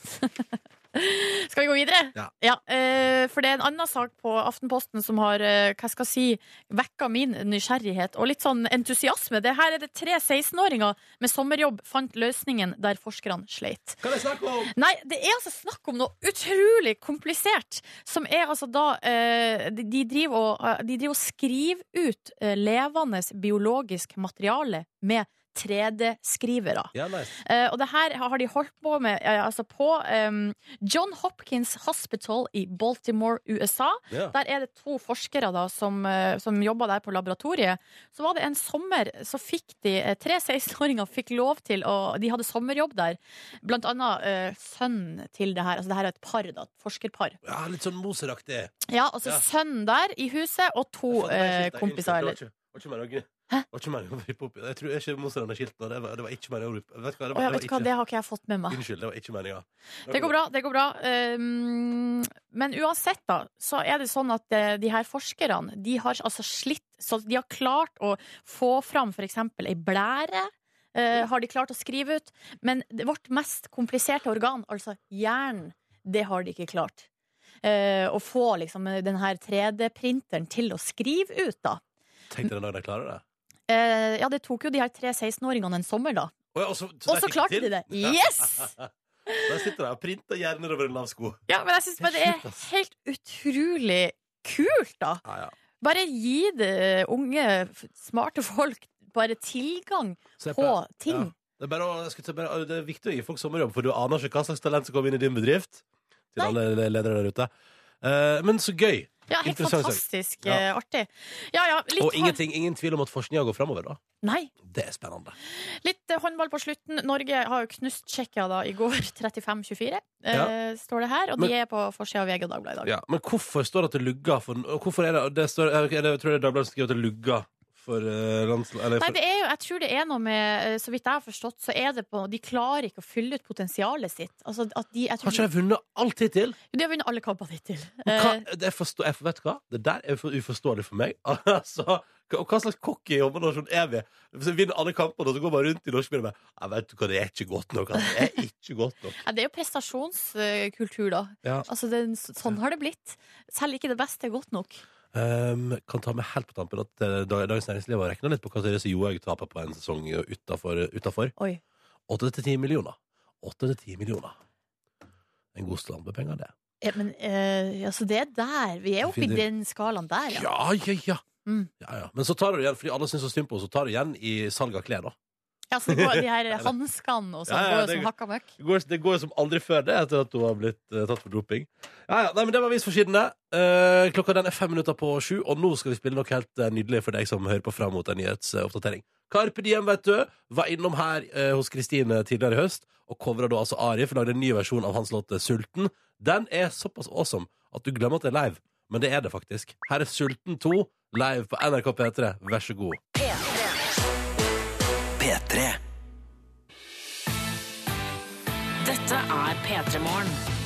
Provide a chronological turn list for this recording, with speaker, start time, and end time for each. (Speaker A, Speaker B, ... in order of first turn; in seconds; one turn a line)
Speaker A: 0.1-14.0
Speaker B: 14.0-14.7
Speaker A: 14.7-47.4
Speaker B: 26.9-27.4
Speaker B: 34.1-34.4
Speaker B: 47.4-48.7
Speaker A: 48.9-52.4
Speaker B: 51.1-57.9
Speaker A: 57.3-58.8
Speaker B: 58.7-60.3
Speaker A: 60.1-77.1
Speaker A: 77.6-81.8
Speaker B: 82.3-83.2
Speaker A: 83.7-86.3
Speaker B: 86.5-88.9
Speaker A: 87.1-88.7
Speaker B: 89.5-91.4
Speaker A: 91.5-95.2
Speaker B: 92.0-92.6
Speaker B: 95.3-95.5
Speaker A: 95.8-101.3
Speaker B: 100.4-107.5
Speaker B: 108.0-110.7
Speaker A: 109.3-112.4
Speaker B: 112.0-114.0
Speaker A: 114.2-114.5
Speaker B: 114.6-115.3
Speaker A: 115.8-122.9
Speaker B: 122.8-129.2
Speaker A: 129.0-135.5
Speaker B: 135.2-136.6
Speaker A: 136.7-138.5
Speaker B: 138.1-149.2
Speaker A: 149.2-154.8
Speaker B: 155.1-161.3
Speaker B: 162.1-164.3
Speaker B: 165.6-166.5
Speaker A: 166.8-170.5
Speaker B: 169.0-169.4
Speaker B: 170.3-171.2
Speaker B: 171.8-175.2
Speaker A: 175.7-178.5
Speaker B: 175.9-176.7
Speaker B: 177.5-203.0
Speaker C: 203.2-203.4
Speaker C: 205.2-205.8
Speaker C: 208.8-210.4